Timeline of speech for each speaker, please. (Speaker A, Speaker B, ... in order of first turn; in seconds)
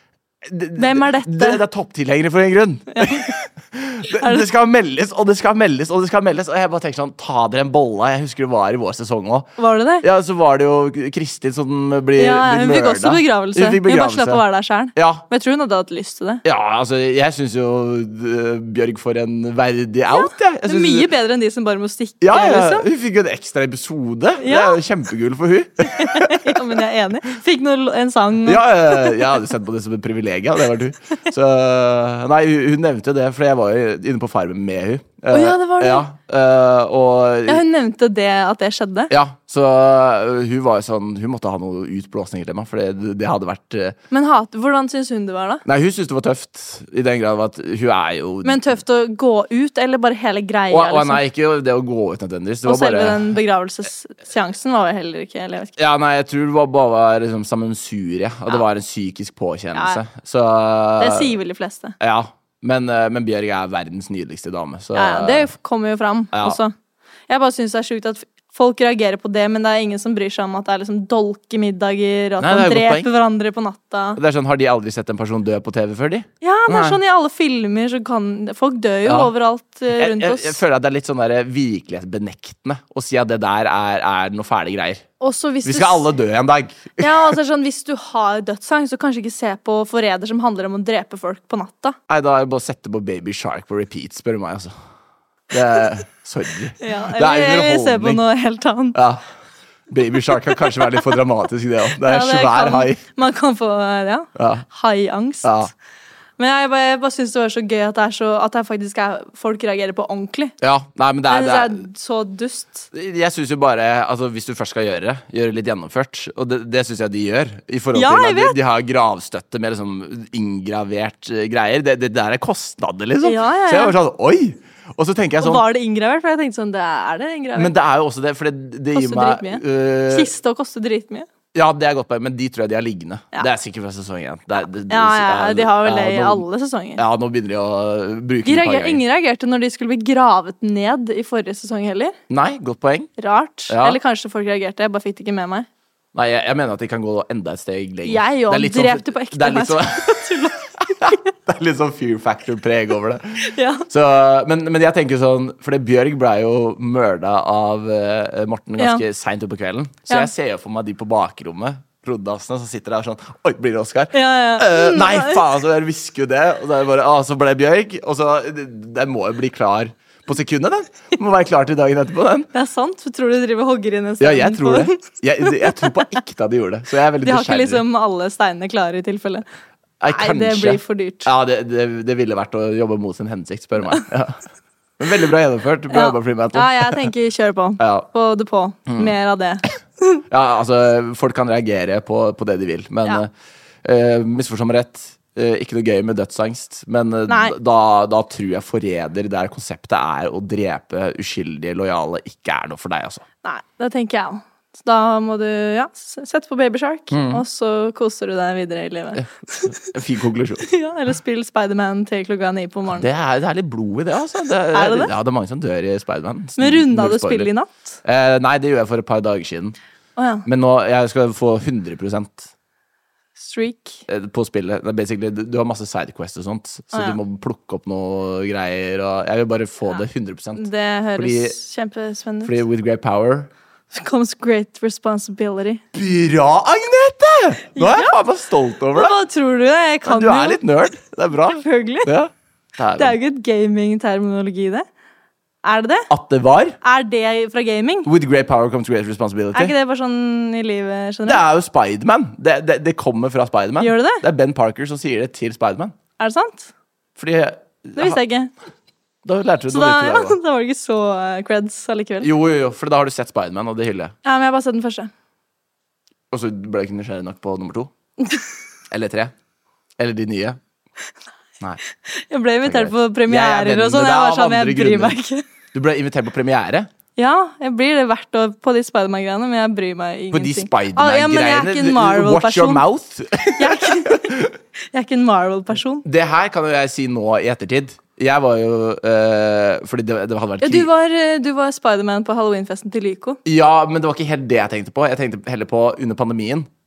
Speaker A: 0.4-9.5, 10.0-14.4, 14.9-15.2, 16.4-21.1, 22.2-26.6, 28.4-37.6, 39.1-44.0, 45.6-48.7, 50.7-53.4, 55.8-61.3, 62.0-65.5, 66.3-66.6, 72.4-73.1, 74.2-77.0, 79.0-79.3, 79.9-85.1, 85.6-87.3, 92.1-94.7, 95.5-98.2, 98.9-99.2, 99.9-103.0, 104.3-104.7, 105.4-105.7, 110.6-111.8, 112.9-125.6, 127.5-130.3, 131.5-136.4, 137.0-139.0, 142.3-143.1, 143.7-144.0, 146.1-150.4, 151.0-172.5, 174.2-177.8, 180.0-184.4, 185.0-187.0, 187.8-188.1, 188.9-189.1, 190.3-193.3, 193.8-203.2, 207.1-207.4, 209.2-210.7, 212.9-217.5, 218.0-219.8, 220.4-222.5, 224.1-231.6, 232.4-233.5, 235.9-239.1, 240.1-243.2, 246.1-246.8, 248.0-249.7, 251.2-255.9, 257.2-258.2, 259.2-260.4, 262.2-264.1, 266.3-267.9, 268.9-269.3, 270.0-270.6, 272.6-275.2, 275.7-276.9, 280.3-284.5, 286.0-290.9, 293.4-296.7
Speaker B: 0.8-1.6, 2.9-3.3, 4.2-4.5, 9.6-10.0, 12.2-16.4, 20.1-22.9, 24.4-24.8, 25.9-29.3, 35.3-36.0, 37.5-39.1, 44.1-45.6, 48.4-51.2, 52.6-55.7, 59.7-60.0, 61.0-62.0, 64.9-66.7, 67.3-74.2, 76.4-80.6, 85.2-86.0, 87.0-92.0, 96.8-99.0, 102.0-105.7, 106.4-110.5, 111.3-112.9, 117.9-118.5, 123.2-123.9, 125.4-127.7, 128.9-131.3, 134.6-137.0, 138.4-142.1, 143.2-145.7, 148.0-151.2, 153.4-153.8, 164.1-165.4, 172.5-176.1, 177.2-179.4, 180.1-181.3, 185.9-190.2, 197.3-197.5, 203.4-209.7, 210.7-213.1, 214.7-215.1, 216.6-217.9, 220.2-220.4, 223.4-224.0, 226.9-227.2, 230.6-232.5, 233.9-235.8, 237.8-238.2, 238.9-240.6, 241.5-242.1, 243.0-244.8, 245.6-246.1, 246.8-248.1, 249.5-251.4, 253.8-254.2, 256.2-256.7, 257.9-258.5, 259.7-262.3, 264.2-265.1, 272.0-275.4, 277.2-282.8, 283.6-284.4, 284.9-286.0, 290.6-293.4